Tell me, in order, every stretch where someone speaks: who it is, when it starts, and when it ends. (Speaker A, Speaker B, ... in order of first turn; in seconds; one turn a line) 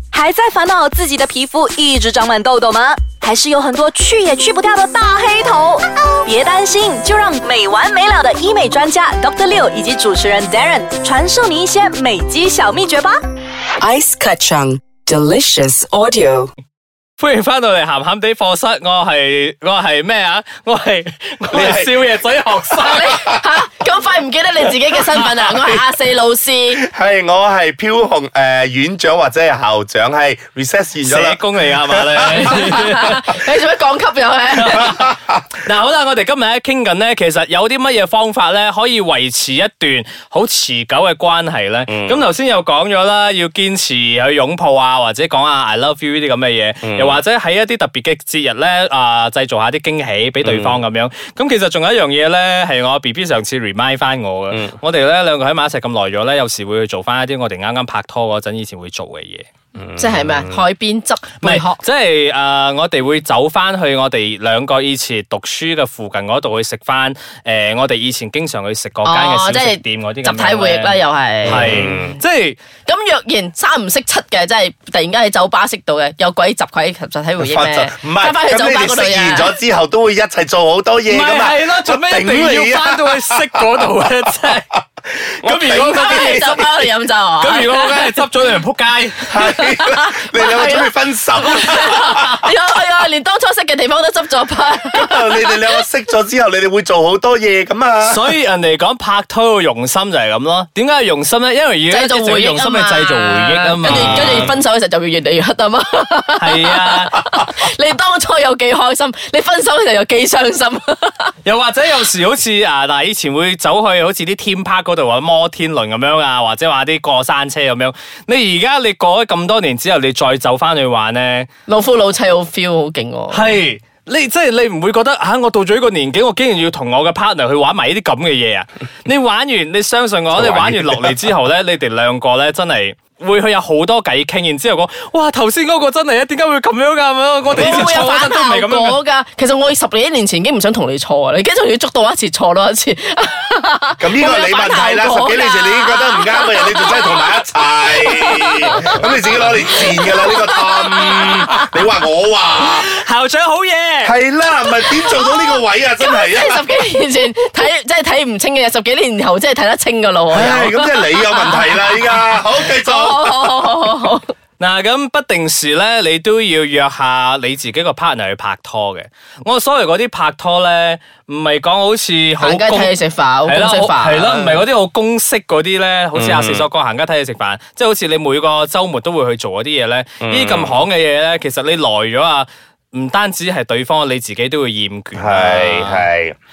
Speaker A: 0.1-13.2
Speaker B: 13.8-16.4
Speaker C: 17.2-23.2
Speaker D: 21.5-22.1
Speaker D: 22.8-23.4
Speaker E: 22.9-26.8
Speaker D: 26.7-32.6
Speaker C: 31.0-33.4
Speaker E: 32.3-34.9
Speaker C: 34.5-59.5
Speaker D: 34.7-35.4
Speaker D: 41.9-42.2
Speaker D: 46.8-47.2
Speaker D: 50.4-50.8
Speaker D: 54.5-54.8
Speaker D: 59.8-60.6
Speaker E: 60.0-61.8
Speaker C: 61.4-72.6
Speaker E: 69.0-72.0
Speaker D: 71.4-72.2
Speaker E: 72.9-79.5
Speaker D: 77.4-83.7
Speaker C: 81.1-86.6
Speaker D: 85.4-86.7
Speaker E: 85.8-88.2
Speaker C: 87.4-89.3
Speaker D: 89.3-92.5
Speaker E: 89.5-95.8
Speaker D: 94.9-98.3
Speaker C: 98.0-104.5
Speaker E: 101.9-111.3
Speaker D: 103.8-104.6
Speaker C: 106.4-107.2
Speaker C: 111.5-121.5
Speaker E: 121.7-123.5
Speaker C: 123.3-139.0
Speaker D: 130.3-131.2
Speaker D: 137.5-137.9
Speaker E: 137.6-151.9
Speaker D: 144.0-153.0
Speaker C: 152.6-154.1
Speaker D: 154.0-156.6
Speaker E: 154.7-164.3
Speaker D: 160.3-163.7
Speaker C: 164.6-172.9
Speaker E: 172.4-174.6
Speaker C: 173.4-186.1
Speaker D: 176.1-176.7
Speaker D: 180.2-180.8
Speaker D: 185.2-186.4